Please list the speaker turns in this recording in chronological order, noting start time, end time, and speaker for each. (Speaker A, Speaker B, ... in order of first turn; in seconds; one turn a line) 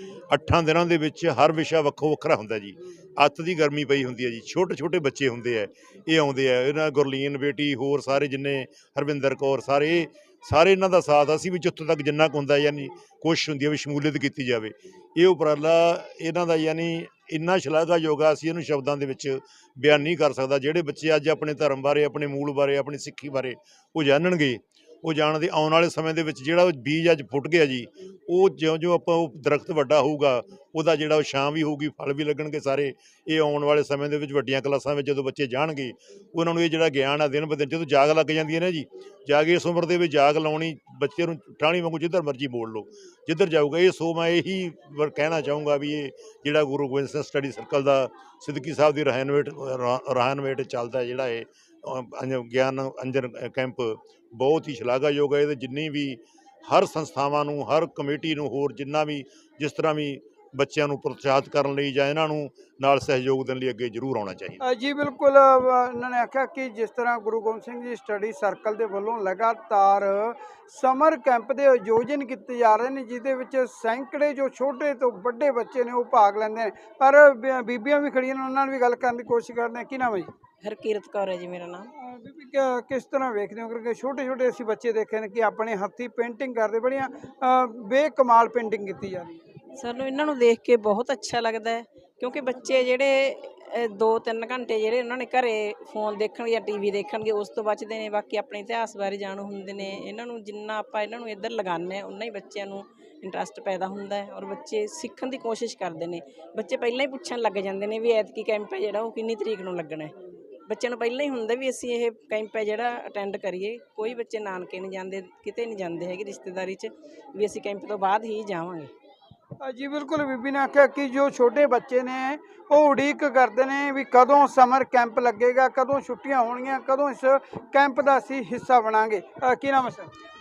Speaker A: 0.3-64.6
Speaker B: 64.6-80.3
Speaker C: 80.6-81.9
Speaker B: 82.0-89.4
Speaker C: 89.8-110.1
Speaker C: 110.7-118.9
Speaker B: 119.6-130.1